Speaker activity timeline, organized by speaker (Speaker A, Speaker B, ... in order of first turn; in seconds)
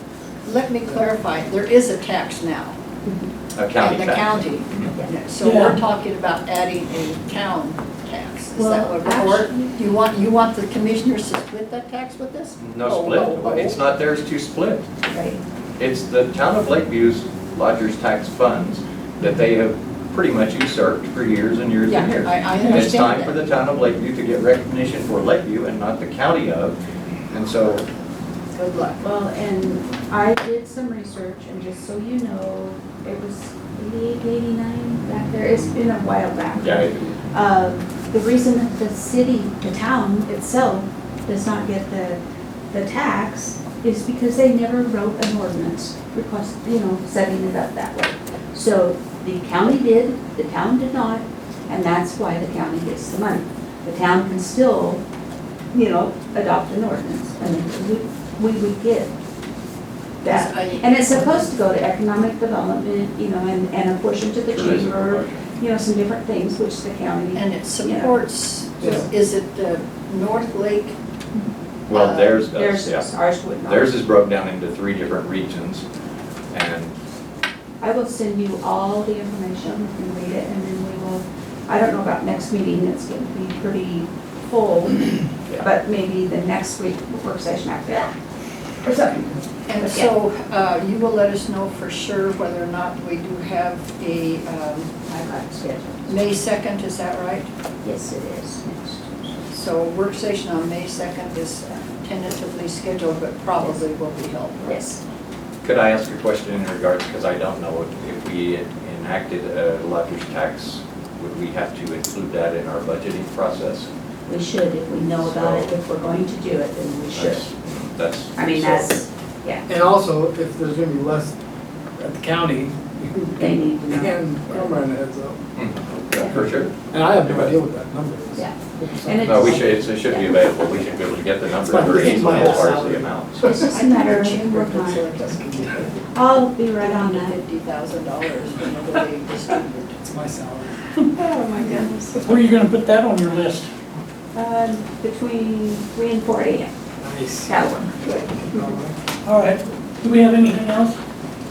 Speaker A: 0.4-2.8, 3.8-13.7, 21.9-23.4, 28.5-29.0, 60.2-61.5, 67.3-71.0, 71.9-72.4, 89.7-94.9, 96.1-97.5, 99.5-104.8, 131.9-132.6, 133.4-135.9, 136.8-140.0
Speaker B: 3.0-3.3, 8.6-9.8, 15.1-15.4, 29.0-42.2, 42.7-55.0, 55.7-59.1, 60.2-68.2, 72.5-74.0, 77.8-88.1, 88.8-90.1, 95.1-96.2, 97.8-99.5, 104.6-105.0, 114.3-117.5, 118.3-119.7, 123.4-124.8, 128.3-130.4, 133.5-135.1, 136.1-137.4, 141.1-142.3, 144.3-146.7, 147.5-148.8
Speaker C: 3.5-4.9, 12.6-14.8, 15.8-26.8, 27.3-27.9, 36.5-37.0, 64.5-65.4, 71.9-73.1, 73.6-75.8, 76.5-77.0, 105.6-113.9, 115.2-115.7, 117.1-118.9, 125.5-127.5, 129.2-133.4
Speaker D: 5.4-5.8, 142.2-143.7, 149.2-151.0
Speaker E: 119.7-121.3, 122.0-125.4, 126.8-129.6, 131.7-133.1, 135.2-135.9, 140.0-140.8, 147.0-147.6, 148.4-149.0